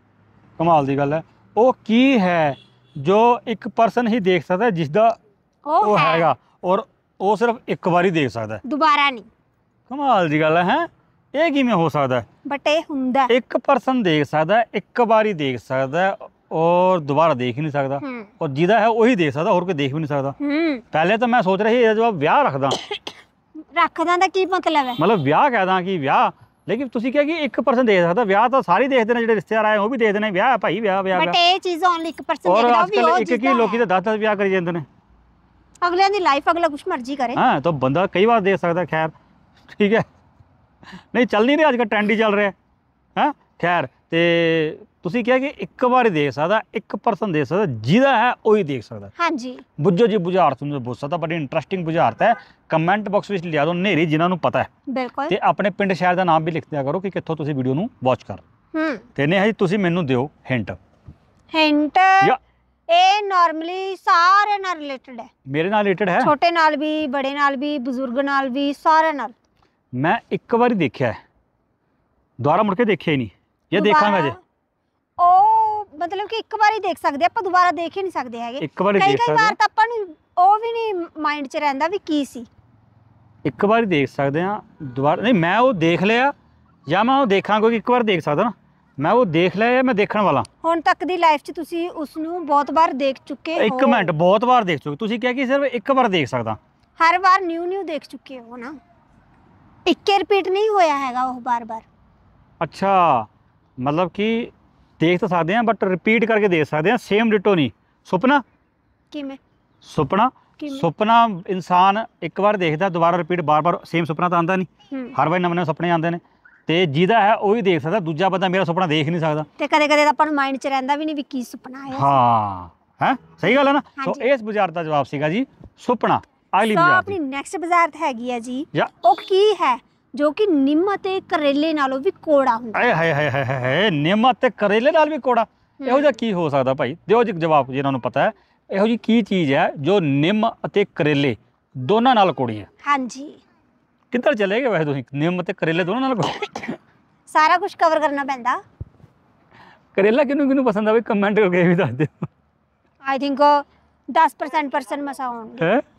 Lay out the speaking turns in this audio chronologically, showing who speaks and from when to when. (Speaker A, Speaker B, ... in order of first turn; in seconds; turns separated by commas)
Speaker A: 0.6-5.2, Speaker B: 5.7-6.3, Speaker A: 5.8-8.6, Speaker B: 8.6-9.3, Speaker A: 9.9-12.2, Speaker B: 12.4-13.3, Speaker A: 13.3-20.4, Speaker B: 18.0-18.3, Speaker B: 20.4-20.8, Speaker A: 20.9-22.8, Speaker B: 23.7-25.0, Speaker A: 25.0-31.4, Speaker B: 31.1-33.8, Speaker A: 32.5-34.8, Speaker B: 35.8-37.4, Speaker A: 37.3-39.1, Speaker A: 39.7-40.0, Speaker A: 41.1-42.5, Speaker A: 43.1-49.1, Speaker B: 49.2-49.6, Speaker A: 49.8-54.7, Speaker B: 54.9-55.3, Speaker A: 55.3-58.4, Speaker B: 58.7-59.0, Speaker A: 59.1-60.8, Speaker B: 61.5-62.4, Speaker B: 62.9-65.3, Speaker A: 65.5-66.3, Speaker B: 66.2-69.3, Speaker A: 69.9-71.2, Speaker A: 72.4-74.3, Speaker B: 73.7-74.4, Speaker B: 75.2-82.5, Speaker A: 78.6-79.5, Speaker A: 83.4-86.3, Speaker A: 86.9-90.5, Speaker B: 90.6-94.1, Speaker A: 93.6-96.6, Speaker B: 97.0-98.8, Speaker B: 99.8-101.8, Speaker A: 102.6-103.3, Speaker A: 103.8-108.4, Speaker B: 109.1-109.4, Speaker A: 109.8-119.5, Speaker B: 110.6-110.8, Speaker B: 114.9-115.1, Speaker B: 119.6-122.2, Speaker A: 121.9-127.2, Speaker B: 124.0-124.3, Speaker B: 126.6-132.9, Speaker A: 132.7-142.7, Speaker B: 135.8-136.2, Speaker B: 142.8-143.4, Speaker A: 144.1-146.8, Speaker B: 147.3-148.6, Speaker A: 149.9-152.3, Speaker B: 153.0-155.7